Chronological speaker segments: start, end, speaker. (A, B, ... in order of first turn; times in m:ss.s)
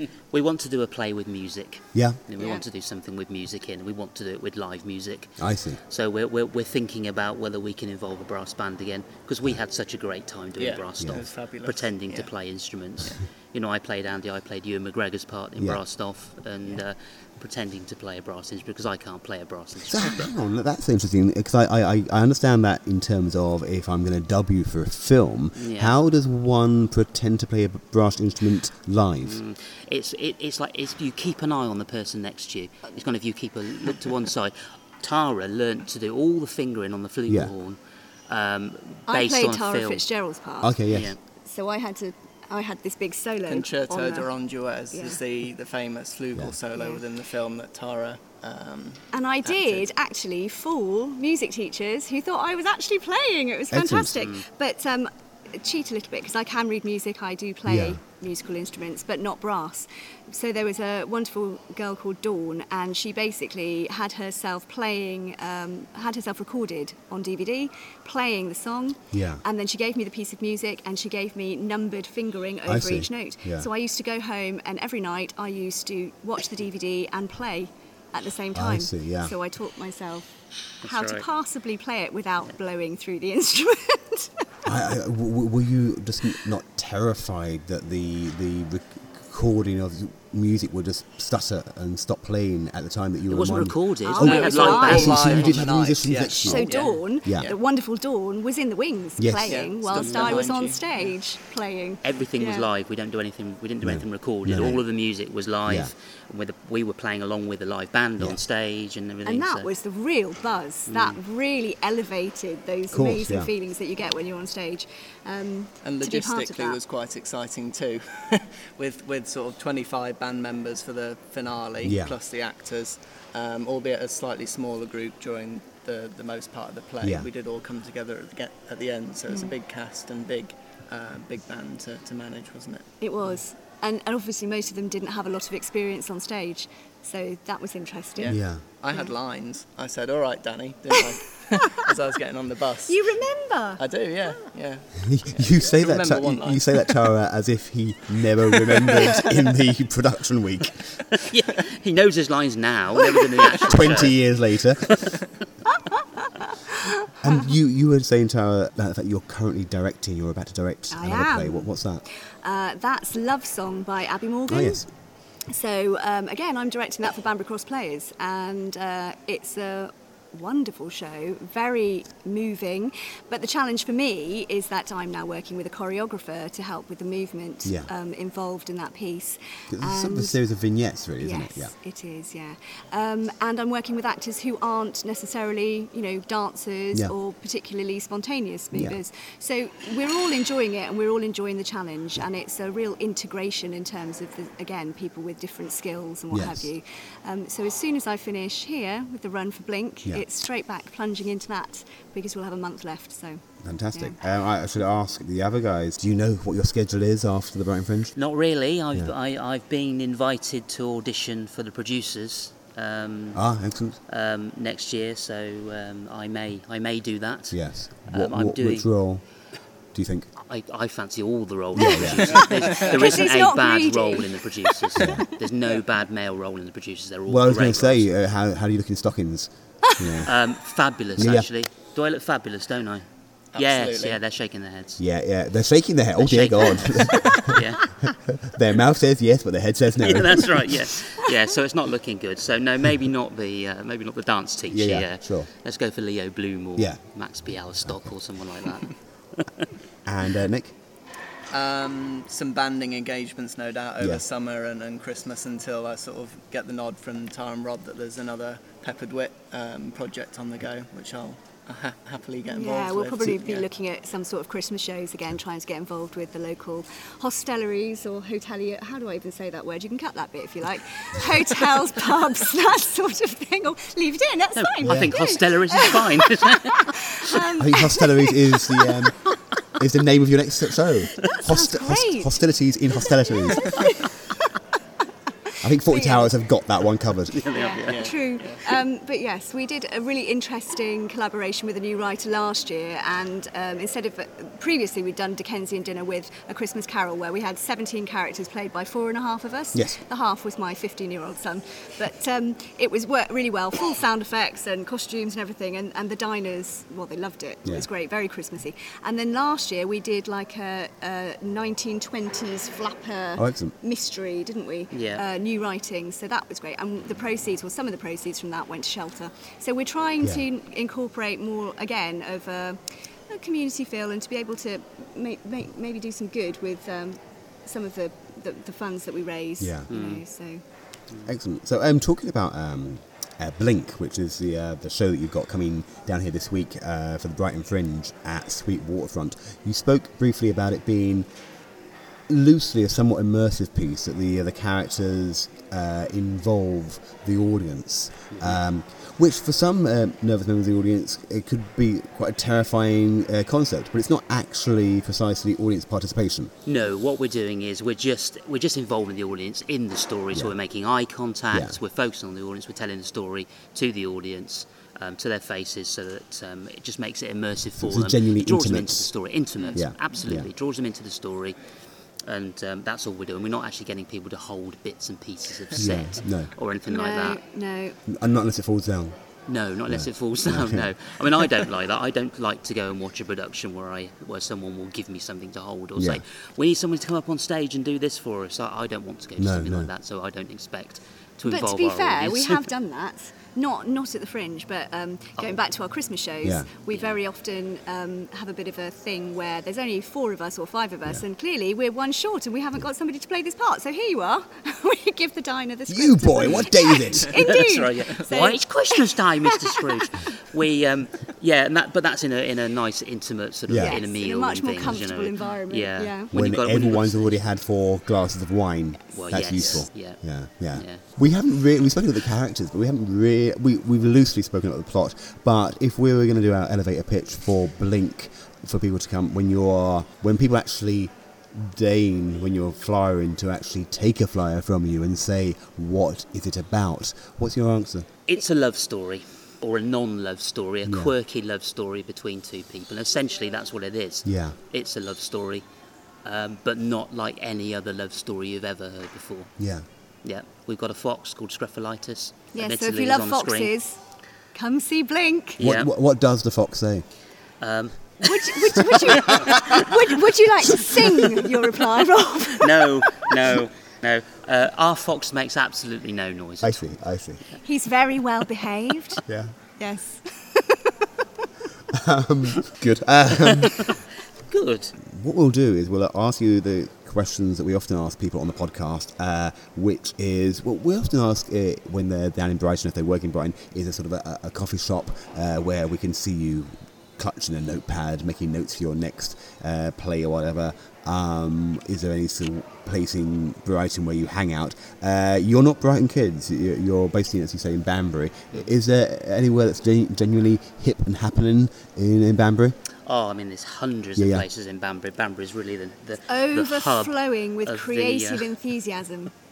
0:00.3-0:20.3 A
0:01.9-0:02.2 B
0:02.4-0:02.6 C
0:05.4-0:05.8 B
0:10.6-0:12.3 D
0:19.9-0:29.4 B
0:25.6-0:26.0 A
0:29.2-0:40.0 A
0:37.3-0:37.5 B
0:39.1-0:40.8 C
0:40.6-0:41.1 B
0:40.9-0:41.2 A
0:41.4-0:44.3 C
0:43.5-0:49.9 D
0:44.9-0:45.2 C
0:46.8-0:47.0 C
0:49.1-1:20.3 C
0:53.7-0:54.2 B
0:54.2-0:54.4 A
0:57.7-0:58.0 B
1:09.1-1:09.4 B
1:12.7-1:13.7 B
1:18.5-1:19.4 B
1:20.8-1:21.3 A
1:20.8-1:24.4 C
1:24.7-1:37.5 B
1:33.3-1:35.6 A
1:34.0-1:35.5 C
1:34.2-1:37.6 D
1:36.4-1:42.7 C
1:39.2-1:39.6 B
1:39.5-1:41.2 D
1:39.9-1:40.5 A
1:42.0-1:49.7 A
1:43.8-1:44.8 B
1:45.7-1:45.9 B
1:49.2-1:56.8 C
1:50.9-1:51.2 A
1:52.9-1:53.5 B
1:55.8-2:12.8 D
2:01.8-2:02.2 B
2:07.0-2:07.3 B
2:13.0-2:18.4 C
2:18.2-2:23.1 D
2:18.3-2:18.6 B
2:22.9-2:23.8 C
2:23.8-2:27.0 D
2:25.0-2:30.8 B
2:28.6-2:29.3 D
2:31.1-2:34.2 A
2:33.2-2:33.7 C
2:33.7-2:34.9 B
2:34.8-2:35.2 A
2:35.9-2:37.3 C
2:37.2-2:42.0 B
2:40.9-2:41.7 C
2:42.4-2:44.9 C
2:44.5-2:44.9 B
2:45.5-3:00.4 C
2:57.6-2:57.9 B
2:59.7-3:01.7 B
3:01.2-3:23.4 C
3:08.7-3:09.0 B
3:16.3-3:16.7 B
3:23.6-3:28.2 B
3:28.2-3:33.4 A
3:33.3-3:34.0 B
3:34.1-3:38.9 A
3:37.5-3:39.2 B
3:39.9-3:40.3 B
3:40.4-3:48.1 A
3:41.8-3:42.4 B
3:41.8-3:45.2 C
3:42.3-3:43.0 D
3:45.0-3:45.2 B
3:47.3-3:50.3 B
3:50.2-3:55.0 A
3:51.2-3:51.5 B
3:53.5-3:54.2 D
3:55.0-3:57.6 B
3:56.2-3:57.9 A
3:58.3-4:00.8 B
4:00.0-4:09.7 A
4:04.7-4:05.5 B
4:07.8-4:08.1 B
4:10.1-4:10.7 B
4:11.5-4:23.7 D
4:14.0-4:14.2 B
4:22.5-4:39.1 C
4:34.6-4:37.5 A
4:34.8-4:35.1 B
4:37.6-4:39.1 B
4:39.8-4:43.8 B
4:41.2-4:42.3 C
4:43.0-4:44.5 C
4:45.6-4:47.4 B
4:45.8-4:46.3 C
4:47.3-4:48.1 A
4:47.5-5:30.6 C
4:47.9-4:48.7 D
4:59.8-5:00.0 B
5:13.4-5:13.7 B
5:14.9-5:15.2 A
5:29.6-5:29.9 B
5:29.9-5:30.2 A
5:31.2-5:41.3 B
5:42.3-5:56.5 B
5:56.7-6:11.6 A
6:01.5-6:01.8 B
6:07.8-6:09.1 B
6:09.7-6:10.5 B
6:12.2-6:17.4 A
6:15.8-6:16.5 B
6:16.9-6:18.0 C
6:18.1-6:19.2 B
6:19.5-6:32.7 A
6:19.9-6:20.9 B
6:26.0-6:26.2 B
6:29.4-6:29.9 B
6:31.5-6:50.3 C
6:36.9-6:37.2 A
6:45.9-6:47.4 B
6:46.4-6:46.7 A
6:47.4-6:57.4 A
6:53.7-6:54.0 B
6:53.8-6:56.3 C
6:56.3-7:18.1 B
6:59.1-6:59.7 C
6:59.1-7:00.2 A
7:00.7-7:01.0 A
7:18.3-7:25.6 A
7:20.9-7:21.1 B
7:24.2-7:24.6 B
7:26.2-7:29.5 A
7:29.6-7:29.8 B
7:30.2-7:33.7 A
7:32.6-7:34.0 C
7:34.5-7:35.6 C
7:35.6-7:35.9 A
7:35.6-7:37.0 B
7:37.6-7:40.0 A
7:38.2-7:43.3 C
7:39.2-7:39.6 B
7:42.6-7:46.8 A
7:46.6-7:47.4 B
7:47.6-7:49.2 C
7:49.3-7:49.5 B
7:49.8-7:51.1 C
7:51.9-7:54.0 B
7:53.4-7:55.0 A
7:55.0-8:22.8 B
8:23.0-8:28.5 A
8:24.2-8:24.5 B
8:26.3-8:29.3 C